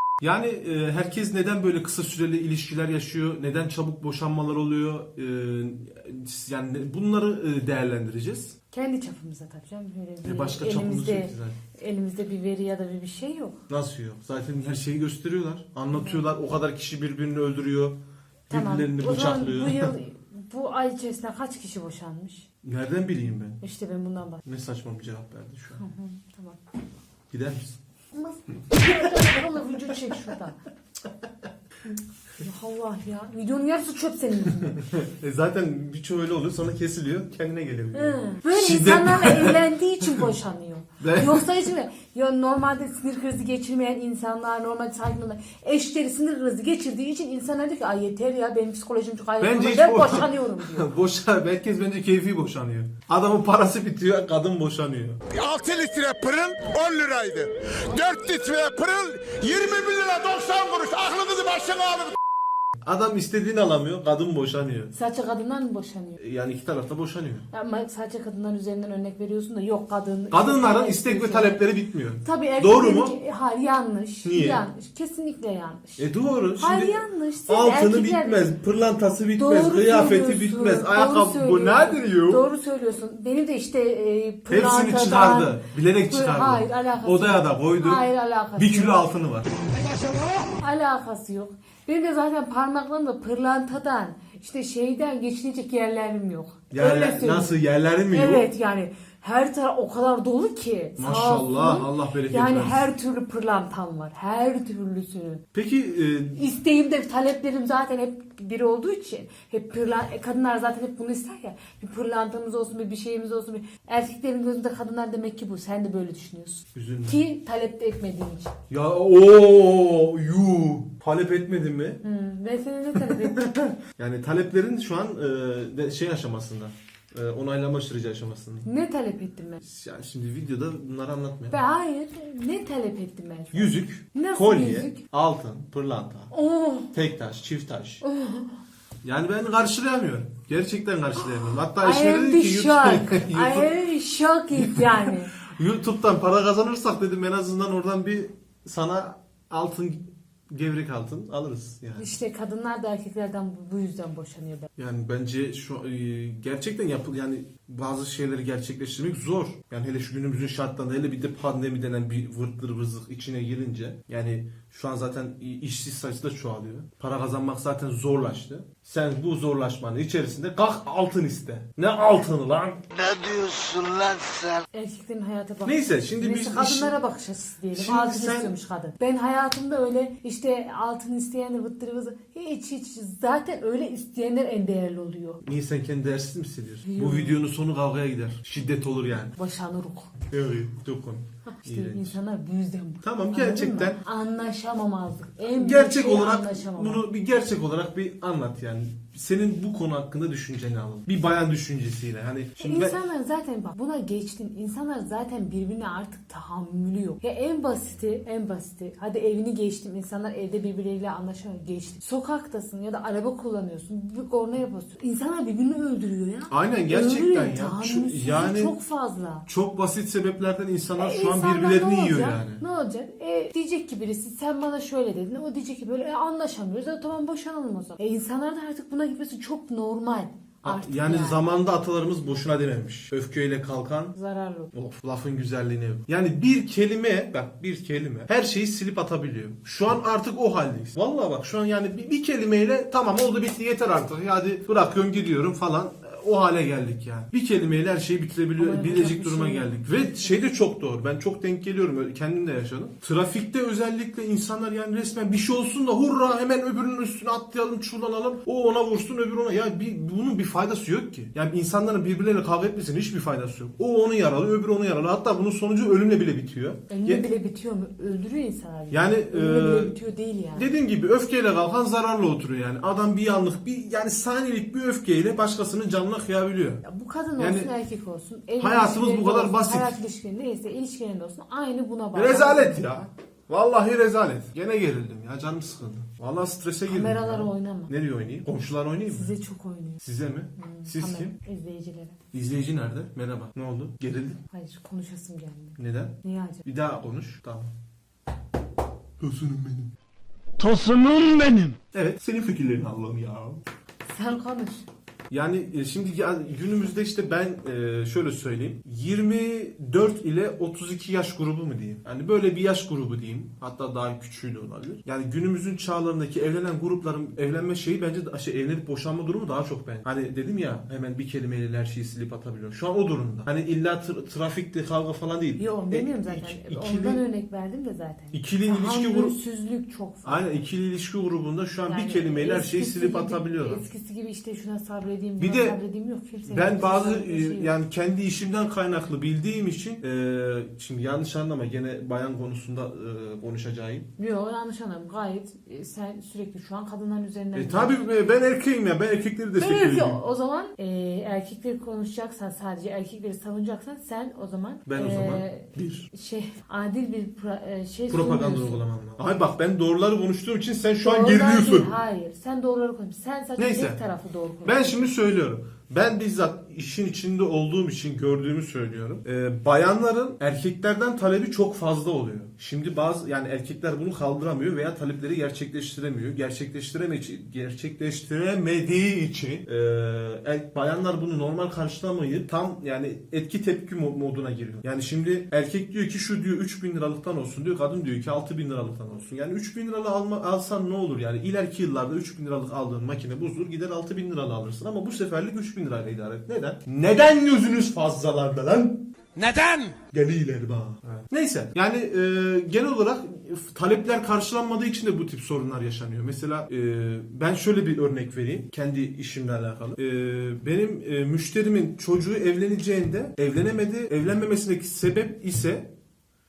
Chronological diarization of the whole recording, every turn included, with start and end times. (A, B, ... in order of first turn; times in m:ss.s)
0:00.2-0:08.6 A
0:08.7-0:13.6 B
0:10.2-0:11.6 A
0:13.7-0:18.0 A
0:15.9-0:16.2 B
0:18.5-0:19.9 A
0:18.5-0:22.4 B
0:22.6-0:23.6 A
0:23.6-0:24.4 B
0:24.4-0:25.8 A
0:25.8-0:26.6 B
0:27.3-0:27.8 A
0:28.1-0:30.6 B
0:28.5-0:28.9 A
0:32.4-0:34.8 B
0:34.7-0:40.2 A
0:37.9-0:50.9 B
0:41.0-0:41.5 A
0:49.4-0:55.2 A
0:55.3-1:02.2 C
1:02.8-1:04.9 A
1:04.9-1:06.2 B
1:06.2-1:07.5 A
1:07.5-1:11.6 B
1:10.3-1:13.2 A
1:12.2-1:18.5 B
1:14.2-1:14.6 A
1:16.0-1:22.4 A
1:19.4-1:29.0 B
1:24.5-1:28.0 A
1:28.6-1:29.5 A
1:29.9-1:37.5 B
1:36.7-1:38.5 A
1:38.1-1:45.4 B
1:41.0-1:42.9 A
1:45.5-1:46.4 A
1:46.3-1:58.5 B
1:56.7-1:57.2 A
1:58.7-2:02.0 A
2:02.0-2:03.7 B
2:03.0-2:08.7 A
2:08.6-2:09.6 B
2:09.6-2:11.6 A
2:11.5-2:15.0 B
2:13.5-2:16.3 A
2:16.3-2:16.9 B
2:16.9-2:18.0 A
2:18.0-2:18.6 B
2:19.0-2:23.7 A
2:21.2-2:25.3 B
2:24.5-2:32.1 A
2:32.0-2:34.7 B
2:34.8-2:52.8 A
2:54.7-3:05.4 B
2:55.6-2:56.9 A
2:57.7-2:58.5 A
3:05.4-3:09.3 A
3:06.8-3:07.4 B
3:09.4-3:10.1 B
3:10.3-3:12.2 A
3:11.6-3:17.0 B
3:13.0-3:14.0 A
3:15.5-3:22.9 A
3:22.6-3:39.4 B
3:36.5-3:38.7 A
3:39.5-3:42.6 A
3:41.0-3:51.4 B
3:50.6-3:54.1 A
3:54.1-3:54.7 B
3:54.7-4:27.2 A
4:08.6-4:10.5 B
4:26.9-4:30.7 B
4:28.9-4:30.0 A
4:30.5-4:36.8 A
4:36.8-4:43.0 B
4:37.4-4:37.7 A
4:38.6-4:39.9 A
4:42.1-4:49.3 A
4:46.8-4:47.9 B
4:49.1-4:50.0 B
4:50.0-4:51.3 A
4:50.6-4:52.2 B
4:52.3-4:54.4 A
4:54.5-4:56.6 B
4:55.8-4:57.7 A
4:59.2-4:59.9 A
5:00.6-5:01.8 C
5:01.9-5:03.6 A
5:04.1-5:04.8 B
5:05.3-5:27.2 A
5:25.6-5:30.4 B
5:28.3-5:29.3 A
5:30.2-5:33.8 A
5:31.9-5:37.7 B
5:35.4-5:35.8 A
5:36.4-5:44.1 A
5:44.2-5:48.0 B
5:47.5-5:50.2 A
5:49.6-5:58.8 B
5:54.9-5:56.1 A
5:58.1-6:01.9 A
6:01.0-6:05.1 B
6:03.6-6:04.0 A
6:04.6-6:39.1 A
6:39.4-6:40.0 C
6:39.9-6:55.8 A